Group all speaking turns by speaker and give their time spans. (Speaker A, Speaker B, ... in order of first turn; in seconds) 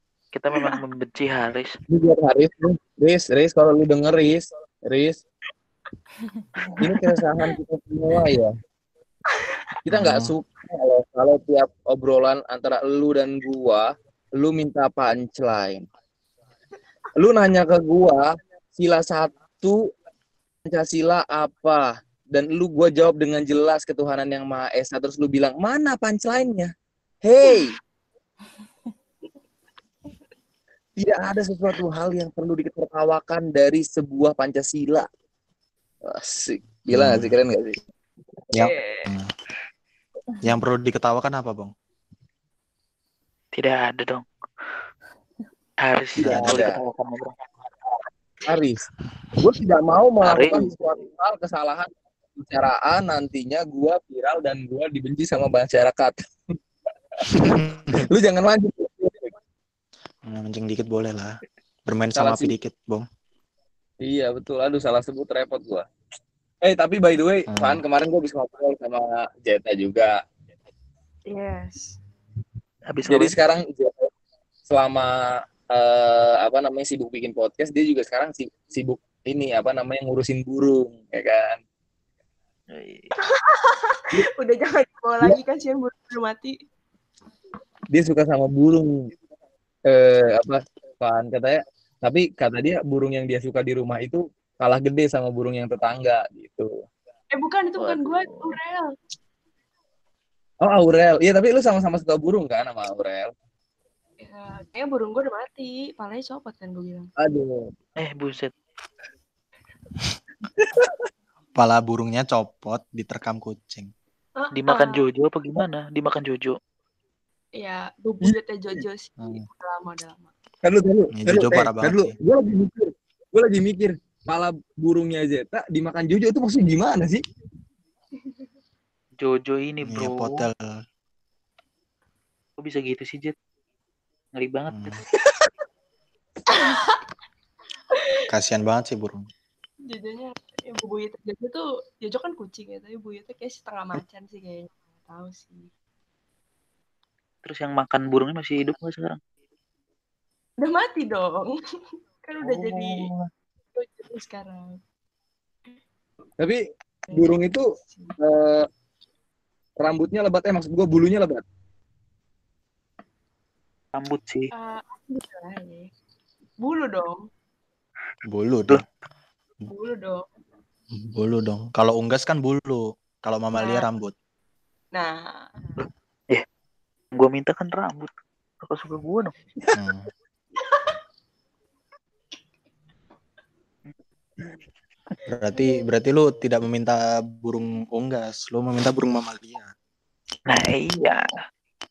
Speaker A: 0.3-1.7, 43.5-44.2, 45.8-47.4, 50.2-50.7, 72.9-73.3, 82.7-83.1, 97.8-98.5, 108.0-108.5, 114.5-116.5, 129.2-130.3, 132.6-133.3, 134.4-135.0, 147.4-149.2, 152.4-153.3, 163.9-164.5, 175.8-176.4, 177.2-178.1, 178.6-179.7, 190.5-191.2
Speaker B: 1.9-5.2, 6.8-8.5, 9.8-15.9, 17.1-19.9, 20.6-26.7, 27.2-27.8, 31.0-35.1, 36.0-37.8, 46.2-46.8, 48.4-48.8, 49.4-56.6, 57.2-59.3, 62.1-62.5, 64.0-65.9, 66.6-70.2, 73.1-74.1, 74.7-75.1, 75.7-81.6, 87.9-88.9, 89.9-96.7, 100.6-103.3, 107.2-107.7, 110.6-111.0, 120.6-127.2, 156.4-158.7, 159.8-161.4
Speaker C: 7.0-7.5, 38.6-39.1, 71.3-72.0, 83.2-86.5, 97.3-98.9, 104.2-107.1, 114.4-115.0, 117.6-120.3, 136.5-137.0, 137.9-138.2, 139.9-145.7, 150.6-151.5, 152.2-153.1, 153.7-154.8, 157.1-157.3, 157.9-158.2, 164.6-165.9, 166.6-167.2, 169.7-170.3, 173.6-173.9, 174.9-175.8, 180.6-181.0
Speaker D: 9.9-10.3, 36.9-37.4, 38.5-39.3, 40.4-41.7, 46.2-46.6, 57.3-58.0, 60.3-61.4, 61.9-63.0, 67.5-67.8, 111.6-113.9, 121.2-122.1, 129.8-130.7, 134.7-135.0, 138.3-139.2, 168.2-168.8, 170.9-174.1, 179.7-180.1, 185.3-189.7